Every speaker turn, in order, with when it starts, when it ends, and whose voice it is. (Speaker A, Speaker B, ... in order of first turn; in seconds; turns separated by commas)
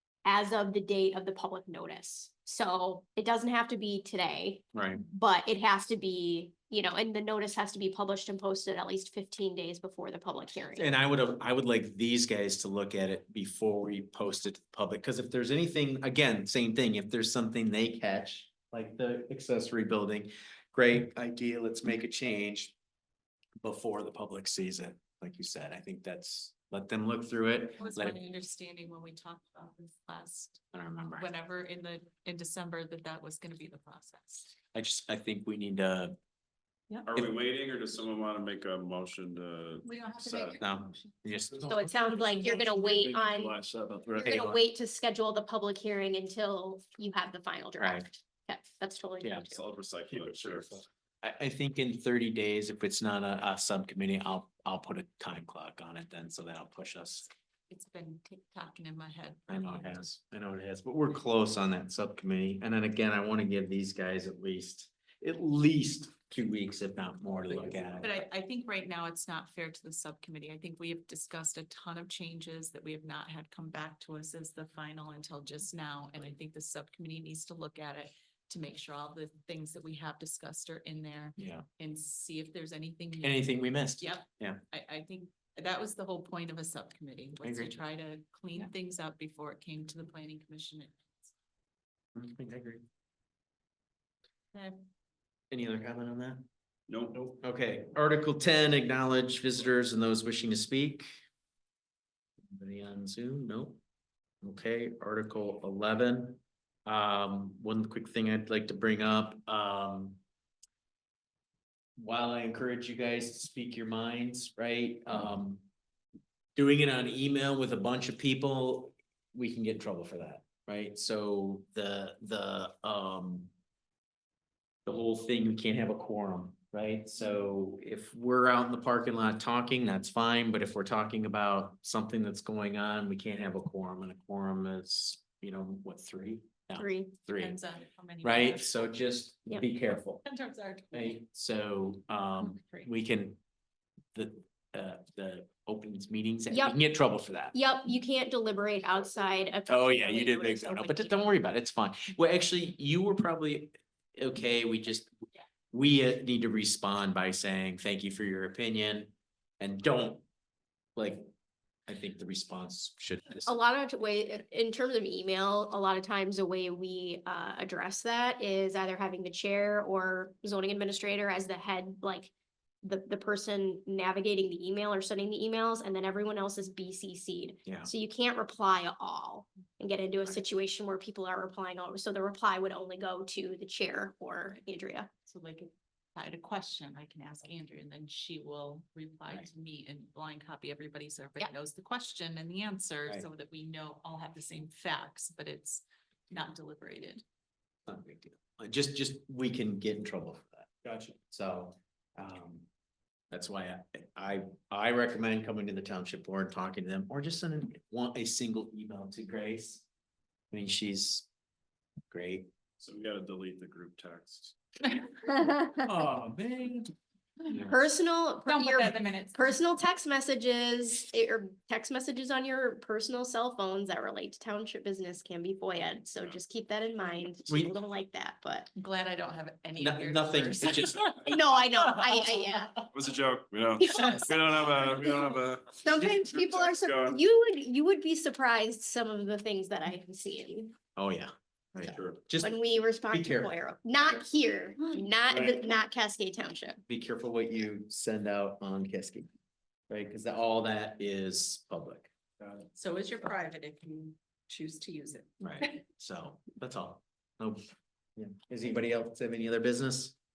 Speaker A: 0.2-10.9, Speaker B: 4.7-5.0, Speaker B: 10.8-22.8, Speaker B: 23.6-28.2, Speaker C: 27.8-34.5, Speaker B: 30.7-31.3, Speaker B: 34.7-36.2, Speaker D: 37.0-40.6, Speaker C: 39.8-40.6, Speaker B: 40.5-41.8, Speaker A: 41.7-43.6, Speaker C: 42.1-42.9, Speaker D: 43.1-44.3, Speaker A: 44.1-49.6, Speaker B: 44.2-44.6, Speaker B: 47.8-48.1, Speaker B: 49.2-49.5, Speaker D: 49.5-50.8, Speaker B: 51.2-57.3, Speaker C: 57.7-60.0, Speaker B: 59.5-68.2, Speaker C: 68.0-91.3, Speaker B: 81.4-81.7, Speaker B: 83.2-84.6, Speaker B: 87.4-87.8, Speaker B: 92.2-92.8, Speaker C: 94.5-94.8, Speaker B: 95.5-96.5, Speaker D: 96.9-97.3, Speaker B: 97.4-101.1, Speaker B: 102.5-103.8, Speaker B: 104.4-110.2, Speaker B: 112.0-115.6, Speaker B: 116.6-123.5, Speaker B: 124.8-137.6, Speaker A: 136.8-137.1, Speaker C: 137.3-138.9, Speaker B: 138.2-140.2, Speaker C: 140.2-141.2, Speaker B: 140.9-143.4, Speaker C: 142.4-142.9, Speaker B: 144.1-147.6, Speaker A: 146.5-146.8, Speaker A: 147.5-151.1, Speaker B: 149.7-155.1, Speaker B: 155.7-160.2, Speaker B: 161.0-161.3, Speaker B: 161.9-163.5, Speaker A: 163.5-172.3, Speaker A: 172.8-185.1, Speaker C: 185.3-197.2, Speaker B: 197.9-202.7, Speaker B: 203.3-209.8, Speaker B: 210.5-211.3, Speaker B: 212.1-212.5, Speaker D: 212.8-214.6, Speaker A: 215.3-215.8, Speaker B: 215.8-216.9, Speaker B: 217.5-217.8, Speaker A: 217.7-228.7, Speaker C: 218.5-219.6, Speaker B: 227.5-227.8, Speaker C: 228.8-231.2, Speaker B: 229.8-231.1, Speaker A: 231.2-232.9, Speaker D: 232.9-237.2, Speaker A: 233.8-234.3, Speaker A: 235.8-240.7, Speaker B: 241.0-242.6, Speaker D: 241.9-242.2, Speaker A: 242.4-246.8, Speaker B: 243.1-243.5, Speaker B: 246.9-249.3, Speaker B: 249.9-252.1, Speaker C: 252.7-255.8, Speaker B: 255.4-260.1